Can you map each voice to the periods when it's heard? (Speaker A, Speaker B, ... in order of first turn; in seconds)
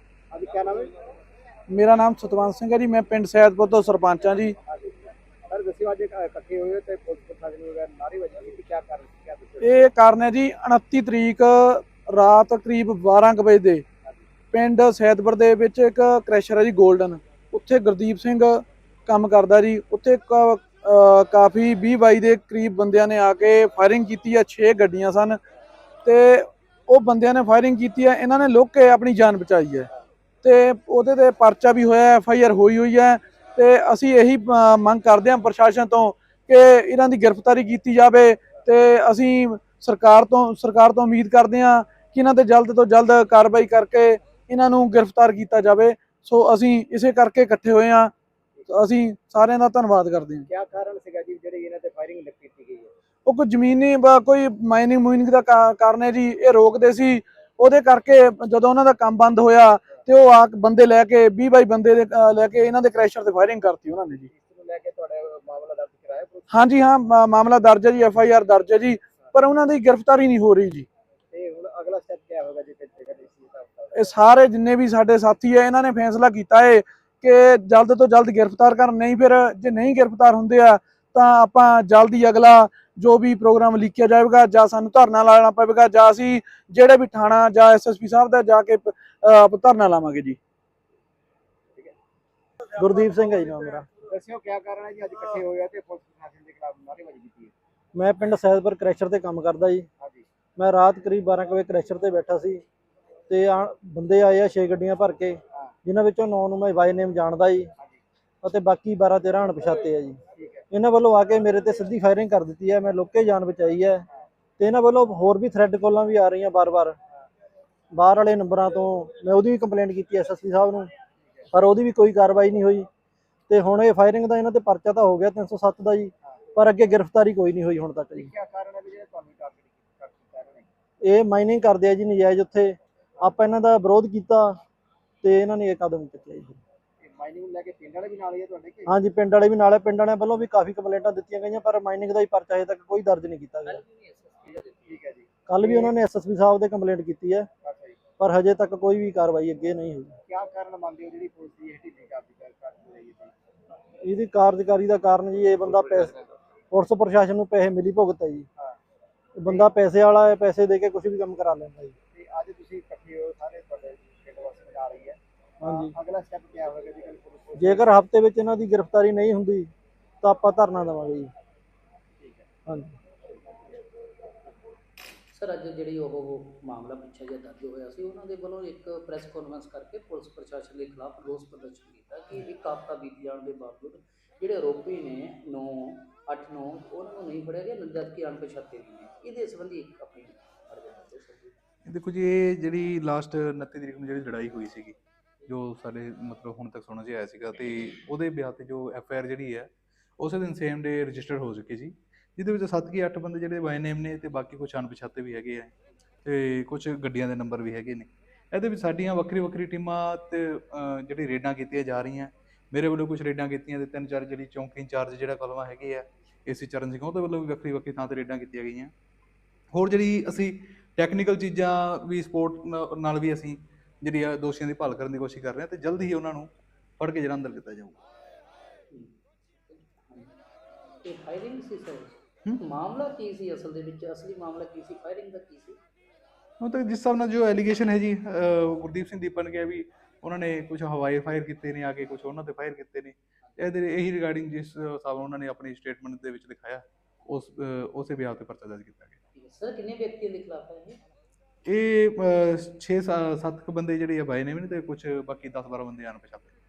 Speaker A: 0.3-0.9, 4.7-9.9, 50.5-52.9, 64.3-66.7, 71.3-74.1, 94.1-97.5, 100.0-100.3, 110.3-110.7, 121.2-121.5, 128.2-130.7, 137.0-138.9, 144.8-145.9, 147.6-148.0, 150.3-153.3, 155.7-156.4, 162.1-168.0, 172.2-172.5
Speaker B: 1.7-4.6, 9.6-13.8, 14.5-25.4, 26.1-29.9, 30.4-48.1, 48.7-50.5, 53.3-64.3, 66.5-70.9, 73.9-90.4
Speaker C: 92.8-93.9, 98.0-99.9, 100.6-102.6, 103.3-107.7, 108.4-110.2, 110.7-114.0, 114.6-117.0, 117.9-120.9, 121.5-122.9, 123.5-128.3, 131.0-134.6, 135.2-136.6, 138.9-143.8, 145.5-147.5, 148.2-150.2, 154.0-156.1, 156.7-158.5, 159.4-161.9, 165.6-165.9, 167.6-169.7, 170.2-171.3, 172.7-172.9
Speaker D: 143.7-145.0, 175.3-191.6, 229.7-230.3, 231.0-235.8, 249.3-251.0
Speaker E: 191.9-205.7, 206.2-218.9, 219.7-228.0, 236.6-249.2, 251.7-256.5